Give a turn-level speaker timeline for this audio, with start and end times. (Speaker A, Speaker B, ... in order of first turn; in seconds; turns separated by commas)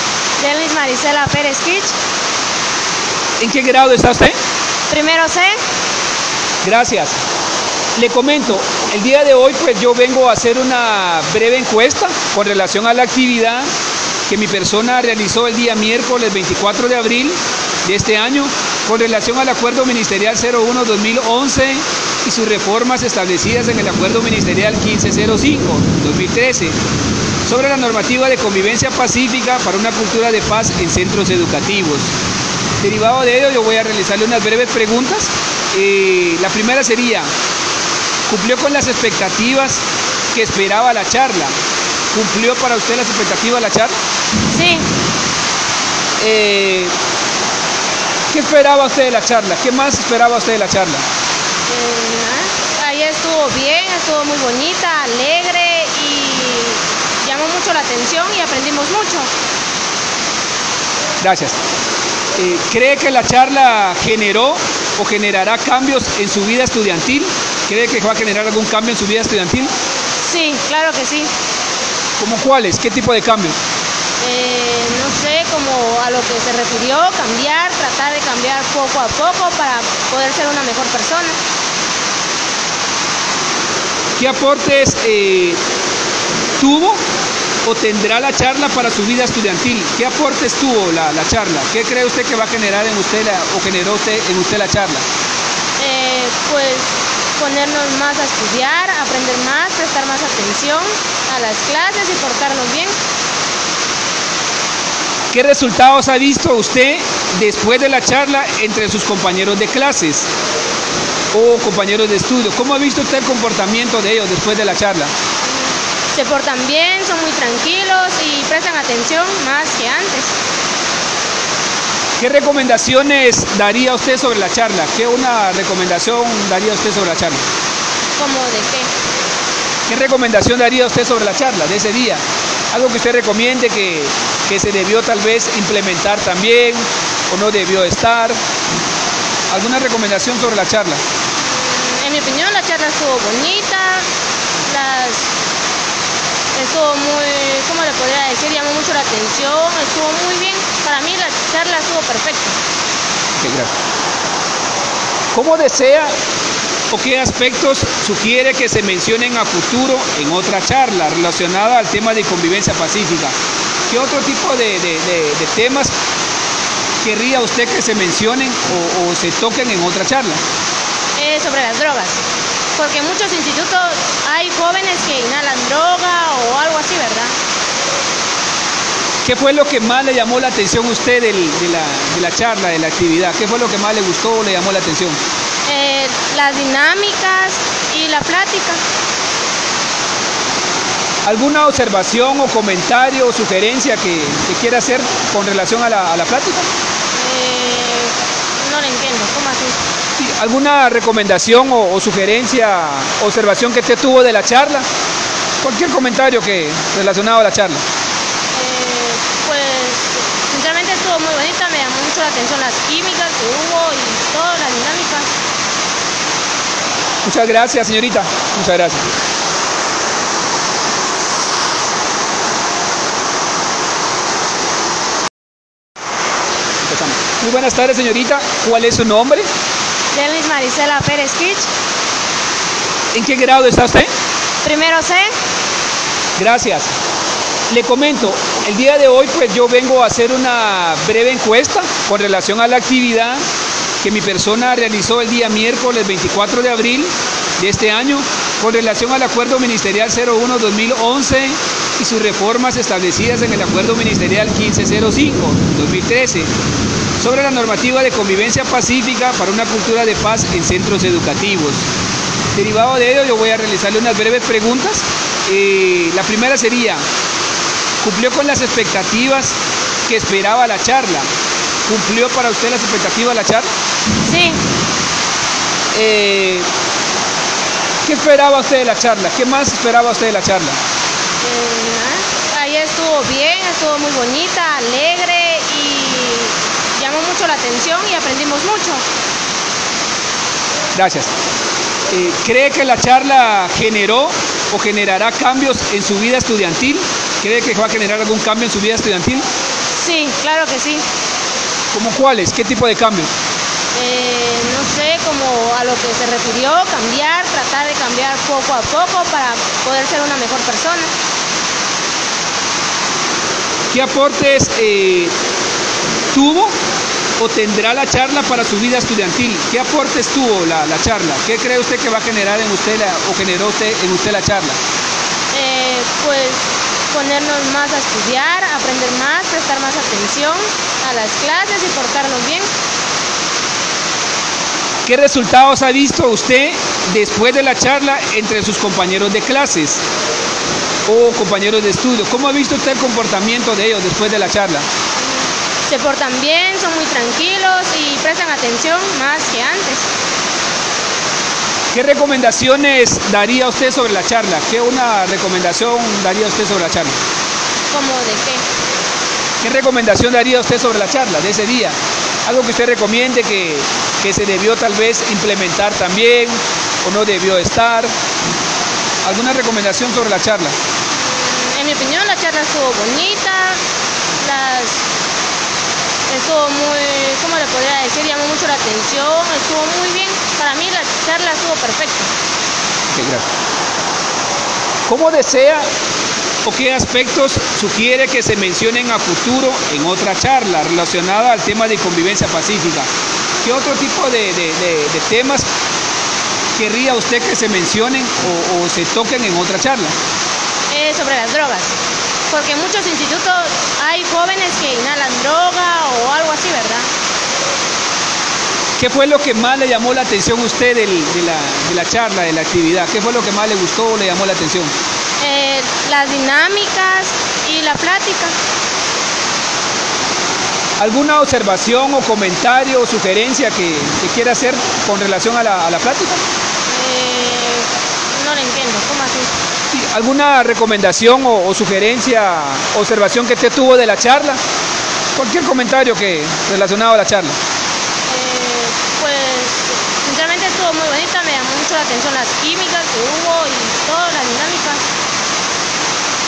Speaker A: 0.4-2.0, Speaker B: 3.4-4.4, Speaker A: 4.9-5.6, Speaker B: 6.6-7.2, Speaker B: 8.0-13.7, Speaker B: 14.3-26.8, Speaker B: 27.4-32.1, Speaker B: 32.8-37.3, Speaker B: 38.3-41.5, Speaker B: 42.1-44.0, Speaker A: 44.5-44.9, Speaker B: 46.2-46.9, Speaker B: 48.3-51.1, Speaker A: 51.7-59.3, Speaker B: 61.2-61.6, Speaker B: 62.4-69.7, Speaker A: 70.2-71.3, Speaker B: 72.2-73.6, Speaker A: 74.2-81.4, Speaker B: 84.2-85.6, Speaker B: 86.6-87.0, Speaker B: 87.6-95.0, Speaker A: 95.8-103.0, Speaker B: 105.3-110.3, Speaker B: 111.3-115.1, Speaker A: 116.1-120.3, Speaker B: 122.2-127.4, Speaker A: 128.2-128.9, Speaker B: 129.9-138.4, Speaker B: 139.5-141.0, Speaker A: 141.4-144.1, Speaker A: 144.7-145.3, Speaker A: 146.5-152.6, Speaker B: 153.3-153.7, Speaker B: 155.3-156.1, Speaker B: 156.9-163.4, Speaker B: 163.9-165.9, Speaker B: 167.0-170.4, Speaker A: 171.2-172.2, Speaker A: 172.8-177.3, Speaker B: 179.2-185.2, Speaker A: 185.7-188.8, Speaker B: 191.2-196.7, Speaker A: 197.1-199.8, Speaker B: 200.2-204.9, Speaker B: 205.6-207.8, Speaker A: 208.5-215.3, Speaker B: 217.2-219.1, Speaker B: 226.8-229.5, Speaker A: 230.1-231.7, Speaker B: 233.1-234.1, Speaker A: 234.6-235.3, Speaker B: 236.4-236.9, Speaker B: 237.7-243.4, Speaker B: 244.0-256.5, Speaker B: 257.2-261.9, Speaker B: 262.5-267.1, Speaker B: 268.0-271.3, Speaker B: 271.9-273.7, Speaker A: 274.2-274.6, Speaker B: 275.9-276.7, Speaker B: 278.0-280.8, Speaker A: 281.4-289.0, Speaker B: 290.9-291.3, Speaker B: 292.1-299.4, Speaker A: 299.9-301.1, Speaker B: 301.9-303.3, Speaker A: 303.9-311.1, Speaker B: 313.9-315.4, Speaker B: 316.3-316.8, Speaker B: 317.4-324.8, Speaker A: 325.5-332.7, Speaker B: 335.1-340.0, Speaker B: 341.1-344.9, Speaker A: 345.9-350.1, Speaker B: 351.9-357.2, Speaker A: 357.9-358.6, Speaker B: 359.6-368.1, Speaker B: 369.2-370.8, Speaker A: 371.1-373.8, Speaker A: 374.4-375.0, Speaker A: 376.3-382.3, Speaker B: 383.1-383.5, Speaker B: 385.1-385.9, Speaker B: 386.6-395.7, Speaker B: 396.8-400.1, Speaker A: 400.9-402.0, Speaker A: 402.5-407.1, Speaker B: 409.0-414.9, Speaker A: 415.4-418.6, Speaker B: 421.0-426.4, Speaker A: 426.9-429.5, Speaker B: 429.9-434.6, Speaker B: 435.3-437.6, Speaker A: 438.3-445.0